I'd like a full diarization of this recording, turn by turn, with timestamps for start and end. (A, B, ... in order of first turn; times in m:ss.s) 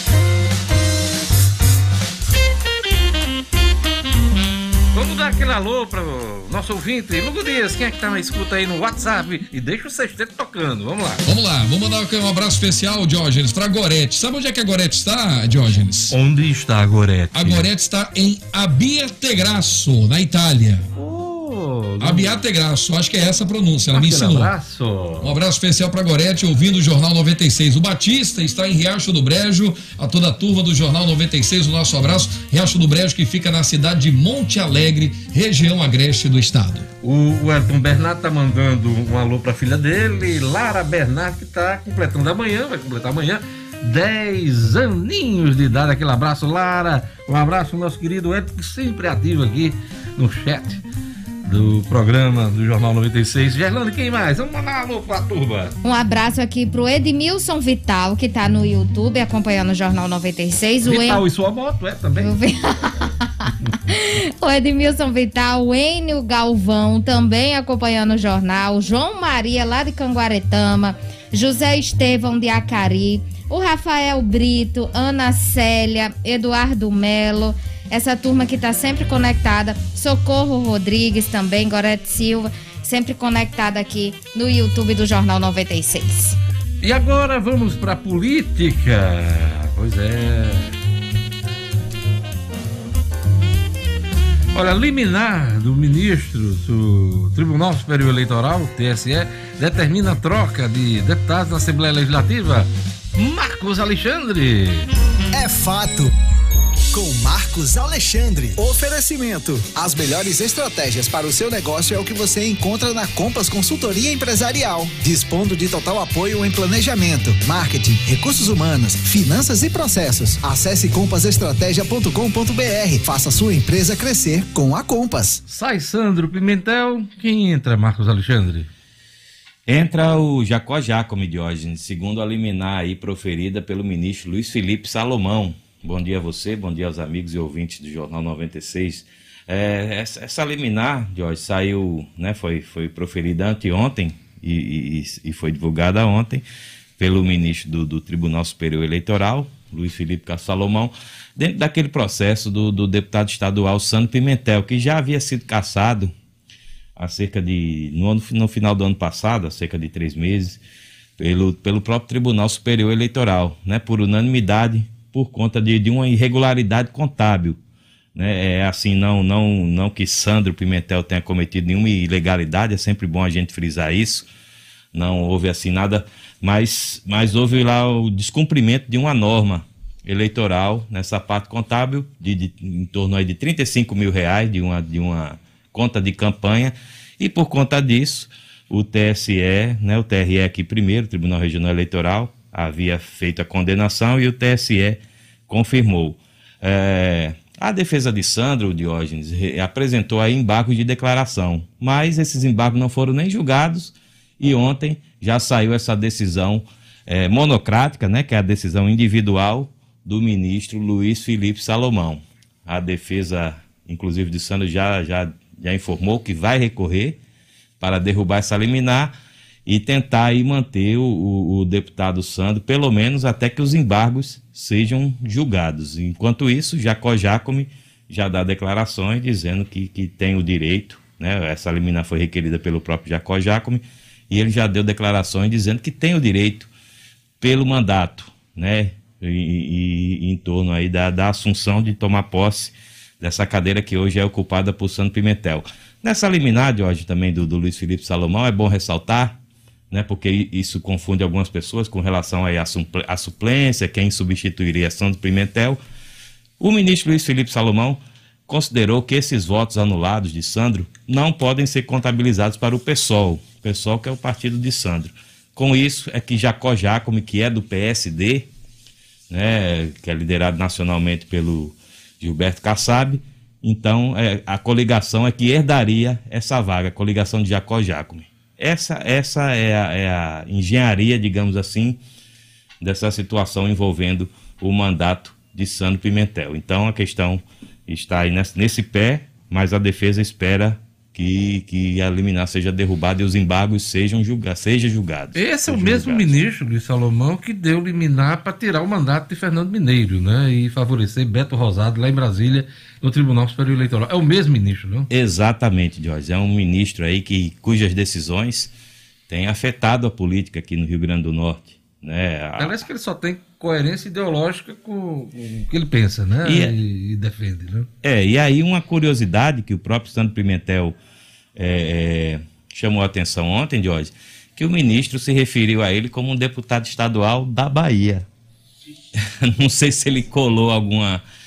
0:04.9-0:11.2 A
0:11.2-0:16.1 B
0:16.1-0:17.7 A
0:17.3-0:20.8 B
0:21.0-0:22.4 A
0:22.0-0:24.5 B
0:23.9-0:25.3 A
0:25.2-0:36.8 B
0:37.0-0:50.8 A
0:51.4-0:55.7 A
0:55.8-1:01.2 C
1:00.8-1:02.4 A
1:02.2-1:26.4 C
1:26.8-1:30.8 A
1:34.5-1:44.9 A
1:45.3-1:46.1 D
1:46.9-2:05.4 D
2:05.5-2:08.7 A
2:09.7-2:26.4 E
2:27.0-2:36.1 E
2:37.0-2:40.6 E
2:41.2-2:47.6 E
2:48.1-2:54.2 E
2:54.9-3:37.2 E
3:37.8-3:39.1 E
3:39.6-3:56.7 E
3:57.4-4:09.4 E
4:09.9-4:15.8 E
4:16.6-4:28.5 E
4:29.3-4:42.0 E
4:42.8-4:56.3 E
4:55.3-5:05.1 A
5:05.1-5:08.7 E
5:09.3-5:12.8 E
5:12.6-5:17.9 A
5:16.4-5:16.7 E
5:18.0-5:21.0 E
5:21.5-5:28.2 E
5:29.2-5:31.2 E